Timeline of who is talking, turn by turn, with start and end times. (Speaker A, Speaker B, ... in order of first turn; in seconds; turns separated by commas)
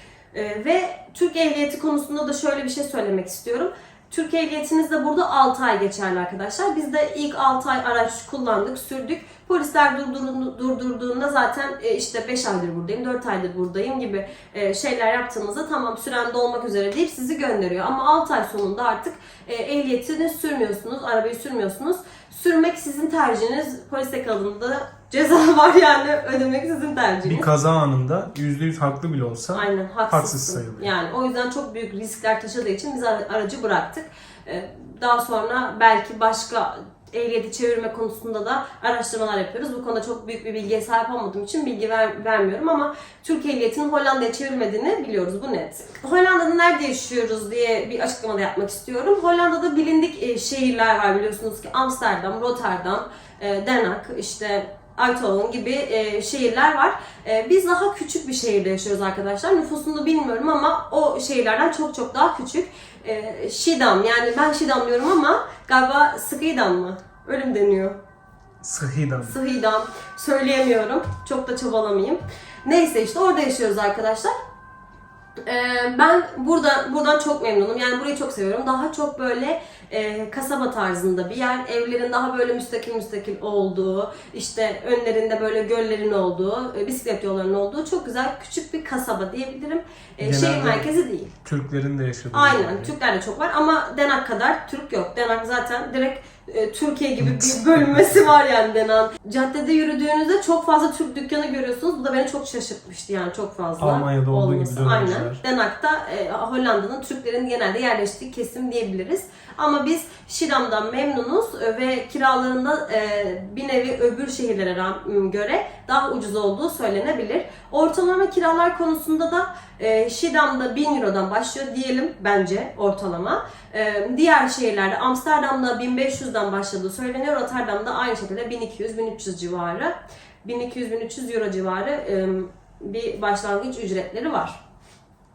Speaker A: 0.3-27.5, Speaker B: 27.2-30.9, Speaker A: 29.5-68.0, Speaker B: 68.6-69.4, Speaker A: 69.2-74.3, Speaker A: 75.5-91.3, Speaker B: 90.2-90.9, Speaker B: 91.4-92.9, Speaker A: 92.3-134.6, Speaker B: 97.2-98.2, Speaker B: 103.8-105.4